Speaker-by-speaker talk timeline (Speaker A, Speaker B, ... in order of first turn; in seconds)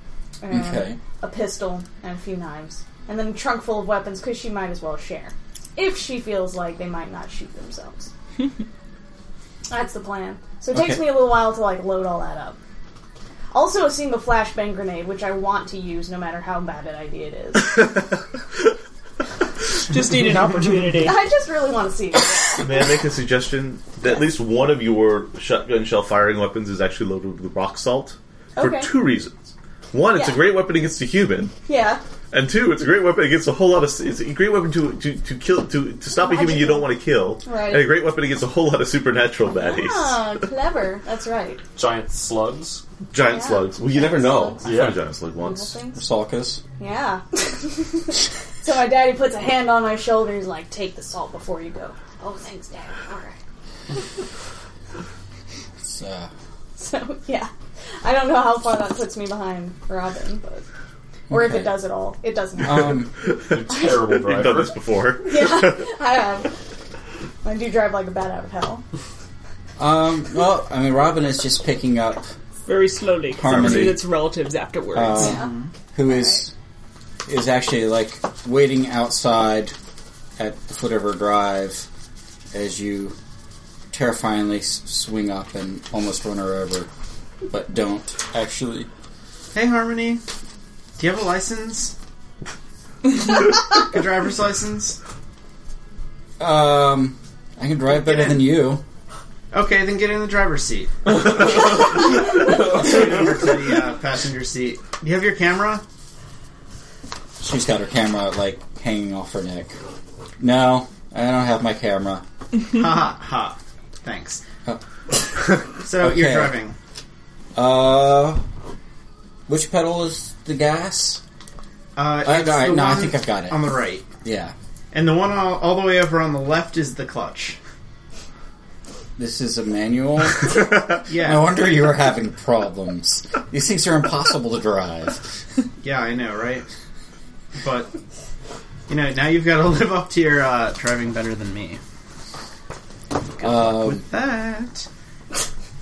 Speaker A: 0.4-8.1, 9.7-12.6, 13.5-18.0, 21.0-22.6, 28.6-28.9, 30.1-30.4, 31.7-32.0, 36.2-38.0, 39.6-41.6, 43.2-46.0, 46.8-53.4, 56.8-60.6, 61.3-63.0, 65.2-66.5, 67.4-68.8, 75.2-75.5, 76.0-76.4
Speaker B: 0.5-1.0, 10.7-11.2, 45.9-46.6, 55.8-56.3, 61.3-61.8, 62.6-63.1, 69.8-72.3, 73.3-74.0, 74.9-76.5, 77.2-79.7, 80.4-81.9, 82.5-83.2, 83.9-86.9, 87.5-88.9, 96.4-98.8, 107.4-109.8, 110.4-112.2, 115.3-116.6, 117.5-118.4, 119.5-121.2, 122.2-124.5, 129.2-135.2, 143.4-144.1
Speaker C: 19.9-21.2, 72.7-75.4
Speaker D: 22.6-31.5, 32.3-40.2, 43.1-45.7, 63.2-65.8, 73.4-74.0
Speaker E: 41.7-42.8, 44.6-45.0, 63.5-64.8
Speaker F: 75.4-75.7, 89.5-90.2, 91.0-91.9, 93.1-95.0, 98.0-98.5, 99.5-105.8, 112.7-114.4, 115.7-116.7, 122.0-124.1, 124.9-127.6, 131.0-131.5, 135.8-136.7, 137.6-137.9, 138.9-141.8, 143.3-144.9